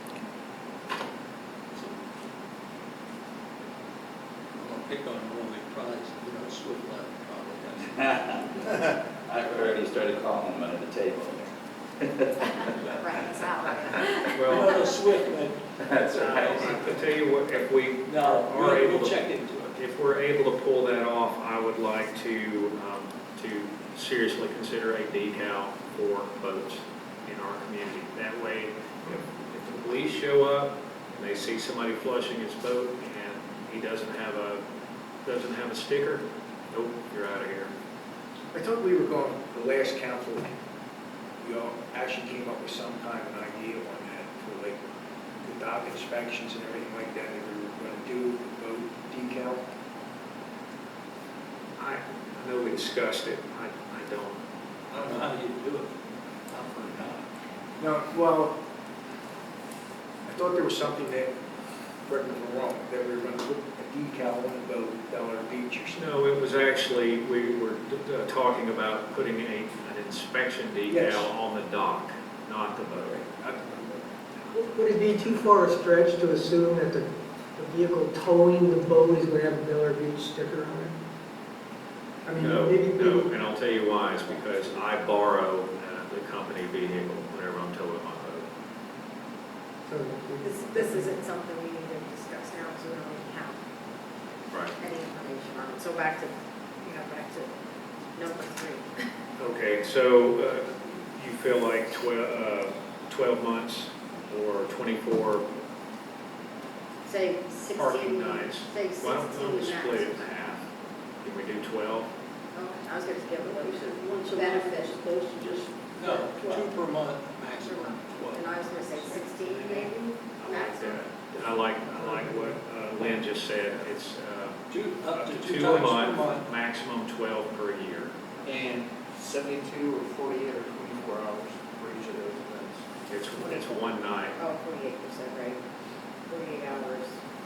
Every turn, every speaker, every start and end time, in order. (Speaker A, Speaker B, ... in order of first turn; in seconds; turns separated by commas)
Speaker A: 1.7-2.0, Speaker A: 4.6-8.5, Speaker B: 8.0-12.8, Speaker C: 12.4-14.9, Speaker D: 14.3-14.7, Speaker A: 14.5-16.9, Speaker B: 15.8-16.8, Speaker D: 16.4-19.2, Speaker C: 16.5-16.8, Speaker A: 18.1-19.8, Speaker D: 19.7-34.6, Speaker D: 35.2-37.7, Speaker E: 38.5-40.6, Speaker E: 41.4-44.8, Speaker E: 45.4-49.6, Speaker D: 51.8-54.4, Speaker A: 54.9-55.9, Speaker A: 56.5-57.3, Speaker E: 57.8-58.6, Speaker E: 60.3-61.3, Speaker E: 62.1-65.9, Speaker D: 65.9-73.4, Speaker E: 70.9-71.3, Speaker E: 73.4-74.0, Speaker F: 74.5-80.9, Speaker F: 82.2-83.3, Speaker D: 82.4-88.5, Speaker F: 89.9-91.2, Speaker C: 90.4-93.6, Speaker C: 94.8-97.5, Speaker C: 98.1-99.1, Speaker D: 99.4-105.5, Speaker C: 107.1-110.3, Speaker D: 107.7-110.7, Speaker D: 111.2-112.1, Speaker C: 112.5-115.4, Speaker G: 113.4-116.7, Speaker A: 115.9-119.9, Speaker C: 117.6-121.0, Speaker D: 120.4-128.4, Speaker A: 124.7-126.5, Speaker H: 128.4-132.8, Speaker D: 133.1-134.4, Speaker C: 133.4-135.6, Speaker C: 136.3-137.2